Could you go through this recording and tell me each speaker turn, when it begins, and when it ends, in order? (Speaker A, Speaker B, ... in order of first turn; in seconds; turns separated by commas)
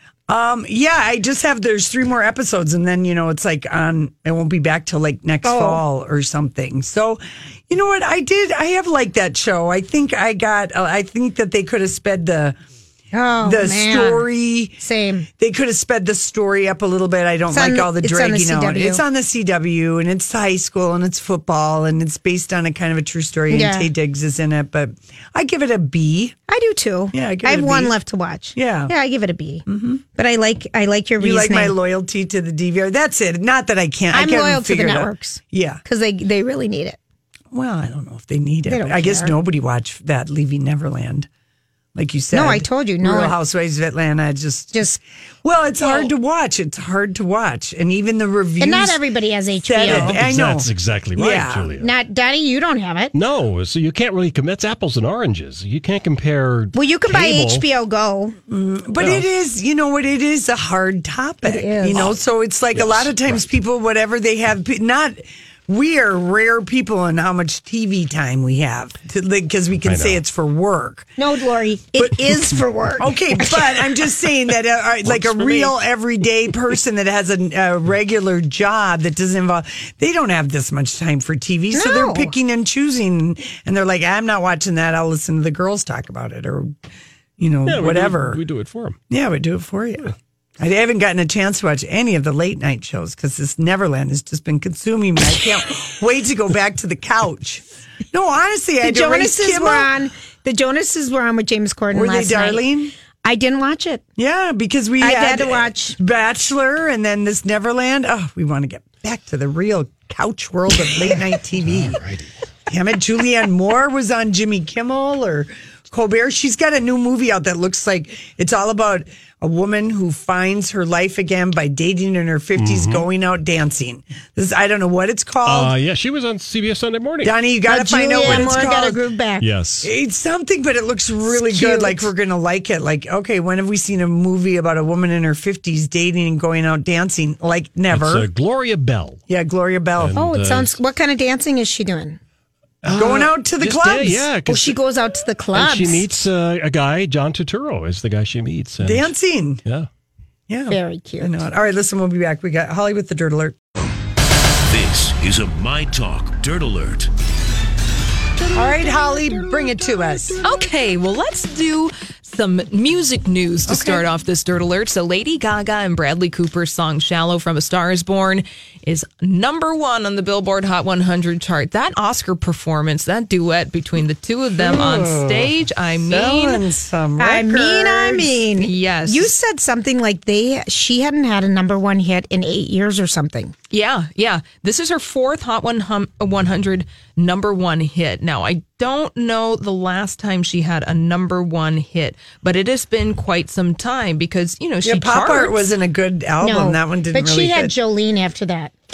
Speaker A: 0.3-12.6, Speaker B: 5.4-5.8, Speaker B: 13.1-14.3, Speaker A: 13.4-14.8, Speaker B: 14.8-15.3, Speaker A: 15.4-26.4, Speaker B: 17.5-19.0, Speaker B: 23.5-23.9, Speaker B: 26.5-31.7, Speaker A: 27.1-27.9, Speaker A: 28.5-28.9, Speaker A: 29.7-30.0, Speaker A: 31.2-35.8, Speaker B: 34.1-37.0, Speaker A: 37.5-41.3, Speaker B: 38.6-39.3, Speaker A: 41.9-44.9, Speaker B: 42.3-43.4, Speaker B: 44.7-45.0, Speaker A: 45.4-49.0, Speaker B: 45.8-46.1, Speaker B: 48.6-50.2, Speaker A: 49.6-51.7, Speaker C: 49.8-51.9, Speaker B: 51.8-53.1, Speaker C: 53.1-57.6, Speaker B: 56.7-58.4, Speaker A: 58.5-71.1, Speaker C: 59.0-59.2, Speaker B: 61.4-62.1, Speaker C: 62.7-63.4, Speaker C: 69.8-70.2, Speaker B: 71.2-73.5, Speaker A: 72.0-86.7, Speaker C: 75.0-75.7, Speaker B: 81.7-82.3, Speaker A: 87.4-88.4, Speaker C: 87.7-89.0, Speaker A: 89.1-99.9, Speaker B: 98.8-102.6, Speaker A: 101.9-102.9, Speaker B: 103.2-104.0, Speaker A: 104.2-112.0, Speaker B: 105.0-106.0, Speaker C: 111.6-112.3, Speaker A: 112.7-125.7, Speaker C: 122.6-123.0, Speaker C: 125.4-127.3, Speaker A: 127.2-129.0, Speaker B: 127.7-129.5, Speaker C: 128.2-128.7, Speaker C: 129.4-129.9, Speaker A: 129.8-138.3, Speaker B: 131.3-132.1, Speaker C: 137.9-139.2, Speaker A: 139.3-140.2, Speaker C: 140.0-140.8, Speaker B: 140.1-142.2, Speaker C: 142.8-144.8, Speaker A: 142.9-144.3, Speaker B: 144.5-146.0, Speaker C: 145.5-149.1, Speaker A: 148.8-149.6, Speaker A: 150.5-153.6, Speaker B: 150.7-151.3, Speaker D: 154.7-157.1, Speaker A: 158.5-160.4, Speaker C: 158.9-160.3, Speaker E: 160.4-176.6, Speaker A: 163.7-164.0, Speaker A: 174.6-178.3, Speaker B: 177.2-183.5, Speaker E: 178.6-179.3, Speaker E: 183.7-195.7, Speaker A: 194.8-197.7, Speaker B: 196.4-198.7